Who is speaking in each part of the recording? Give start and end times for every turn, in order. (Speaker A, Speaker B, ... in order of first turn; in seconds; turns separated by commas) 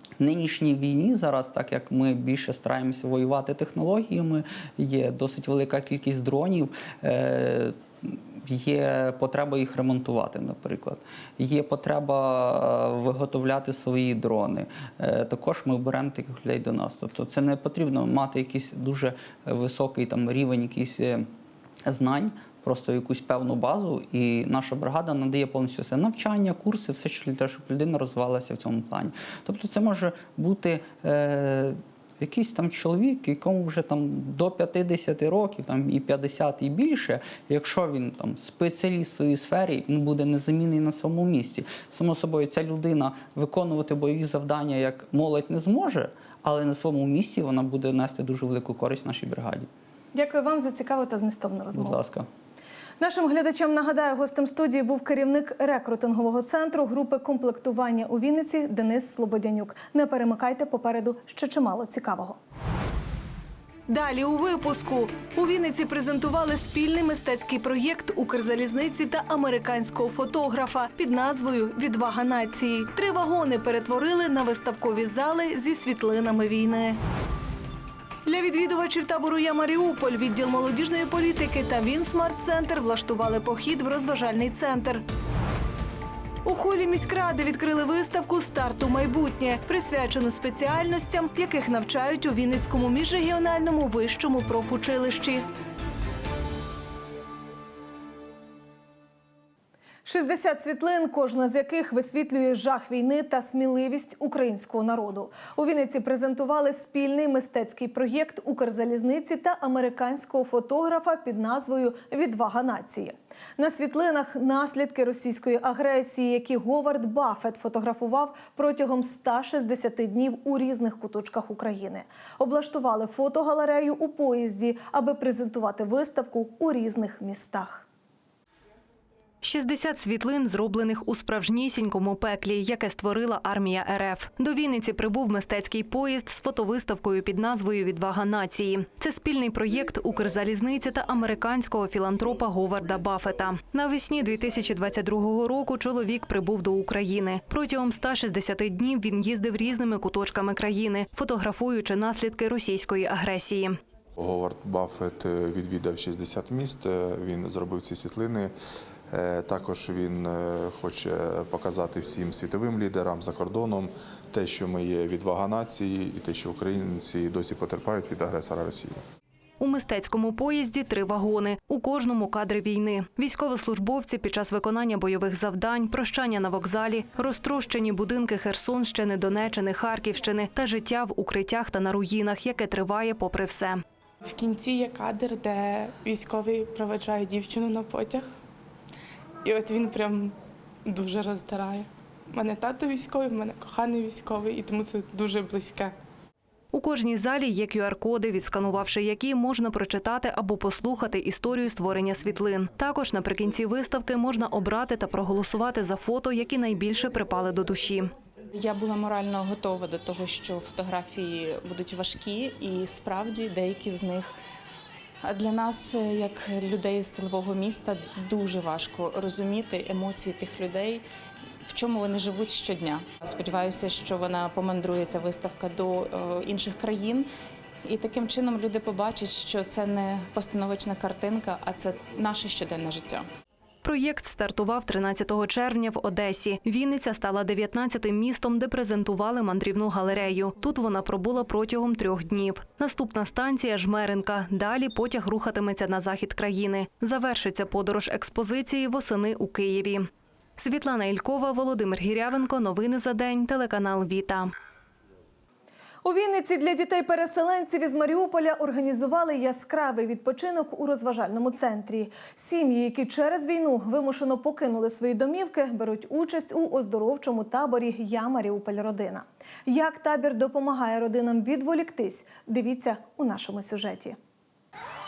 Speaker A: 0.2-21.3, Speaker A: 21.8-49.7, Speaker B: 50.1-52.0, Speaker A: 51.7-52.3, Speaker B: 53.0-62.4, Speaker B: 63.9-77.0, Speaker B: 78.2-85.0, Speaker B: 86.4-95.4, Speaker B: 100.0-127.9, Speaker C: 129.4-153.8, Speaker D: 154.2-158.5, Speaker D: 159.1-169.0, Speaker C: 169.6-183.8, Speaker E: 184.2-188.4, Speaker E: 189.4-190.3, Speaker E: 190.9-195.9, Speaker C: 196.7-208.1, Speaker F: 208.5-214.3, Speaker F: 215.2-221.0, Speaker F: 221.6-227.3, Speaker F: 227.8-233.2, Speaker C: 233.8-254.5, Speaker B: 256.0-274.2